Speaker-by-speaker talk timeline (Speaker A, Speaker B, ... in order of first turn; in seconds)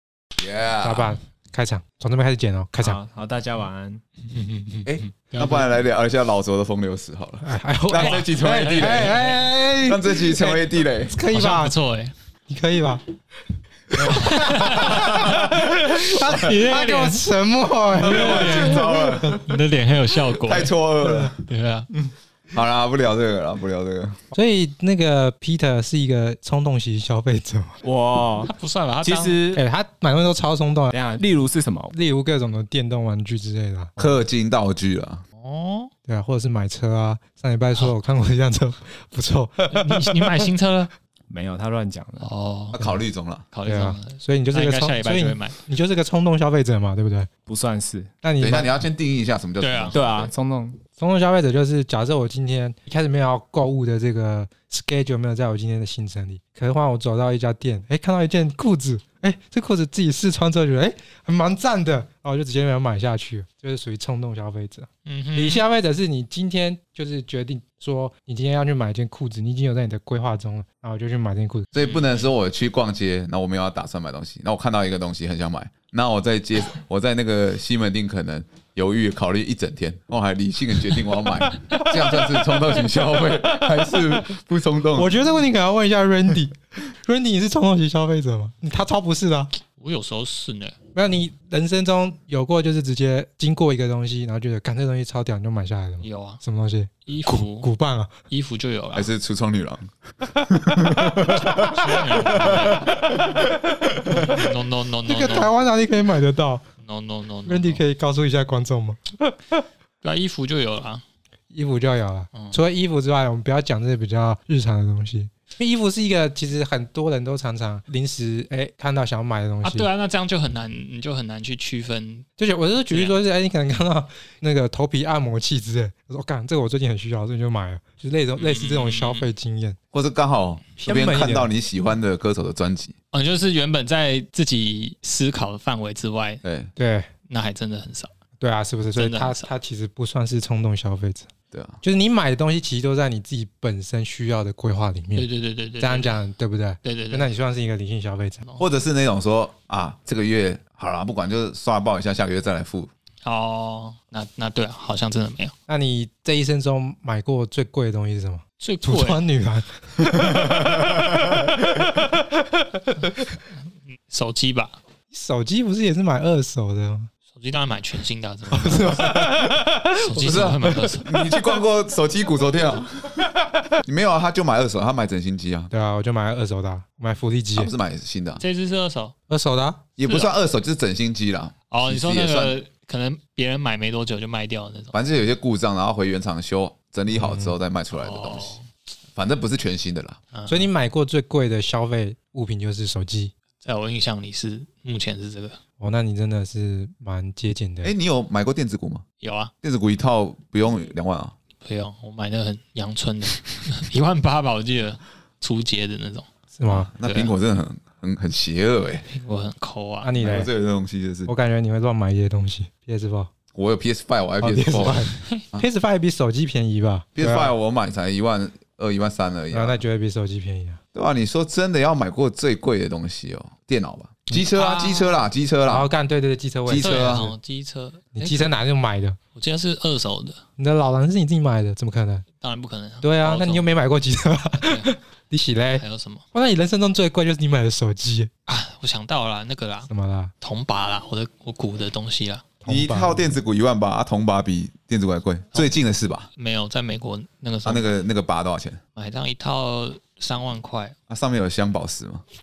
Speaker A: 0.4-1.2, 4.8-11.1, 14.8-15.6, 17.9-19.6, 20.4-21.4, 22.5-24.2, 34.0-35.2, 42.7-43.4, 48.4-50.3, 71.7-85.1, 98.9-101.5, 129.9-132.9, 136.4-136.7, 141.5-141.8, 148.6-152.9, 170.2-173.3, 173.8-175.7, 177.6-178.4, 180.0-182.5, 184.9-188.6, 189.2-190.2, 197.8-199.0, 199.6-201.3, 206.7-209.1, 210.2-211.3, 213.5-215.7, 217.2-219.8, 220.9-225.9, 226.7-227.3, 242.7-246.3, 247.6-248.8, 251.1-252.2
Speaker B: 0.8-3.0, 7.4-11.7, 12.5-13.0, 13.9-19.4, 21.0-21.3, 24.3-27.8, 29.5-30.9, 31.9-34.0, 36.1-40.5, 43.6-47.3, 48.2-48.7, 51.0-71.7, 85.0-89.5, 90.9-98.1, 101.0-101.8, 102.4-104.3, 105.0-106.6, 107.5-109.4, 111.5-119.9, 122.4-129.8, 130.8-131.5, 136.8-137.1, 138.4-141.3, 141.8-145.2, 145.8-148.5, 155.7-162.1, 165.1-167.1, 168.5-170.9, 175.7-177.7, 179.3-179.8, 187.1-187.5, 190.5-193.3, 195.8-197.9, 206.5-206.9, 210.0-210.5, 211.3-213.3, 214.4-217.5, 219.5-220.8, 225.7-227.3, 228.1-229.2, 230.6-232.2, 233.0-238.3, 239.9-240.3, 242.6-243.3
Speaker C: 2.8-4.0, 27.8-29.6, 30.9-31.9, 41.3-42.3, 47.5-48.1, 49.9-50.8
Speaker D: 4.5-5.7, 8.9-9.1, 11.3-12.1, 14.1-15.2, 16.2-17.3, 18.0-20.7, 21.4-21.9, 28.4-29.4, 35.4-35.9, 39.7-40.9, 42.2-42.8, 43.5-45.6, 49.6-50.0, 65.0-65.6, 89.8-90.7, 96.0-96.4, 97.0-97.7, 98.3-99.1, 101.5-103.3, 104.1-105.5, 106.8-107.8, 110.0-111.0, 119.6-122.3, 128.4-129.2, 133.1-136.4, 137.3-138.1, 138.9-139.5, 145.1-146.2, 146.8-147.3, 153.2-155.5, 158.6-159.2, 164.1-164.8, 167.3-169.3, 169.9-171.1, 178.4-179.1, 180.0-180.3, 181.7-184.9, 187.9-188.6, 190.3-190.7, 193.6-195.6, 199.2-199.5, 201.6-206.3, 207.0-207.3, 209.1-210.1, 224.5-225.2, 226.8-228.5, 229.3-230.4, 232.4-233.7, 234.6-234.9, 235.8-236.2, 238.5-239.9, 240.4-242.5, 246.3-248.0, 248.9-250.9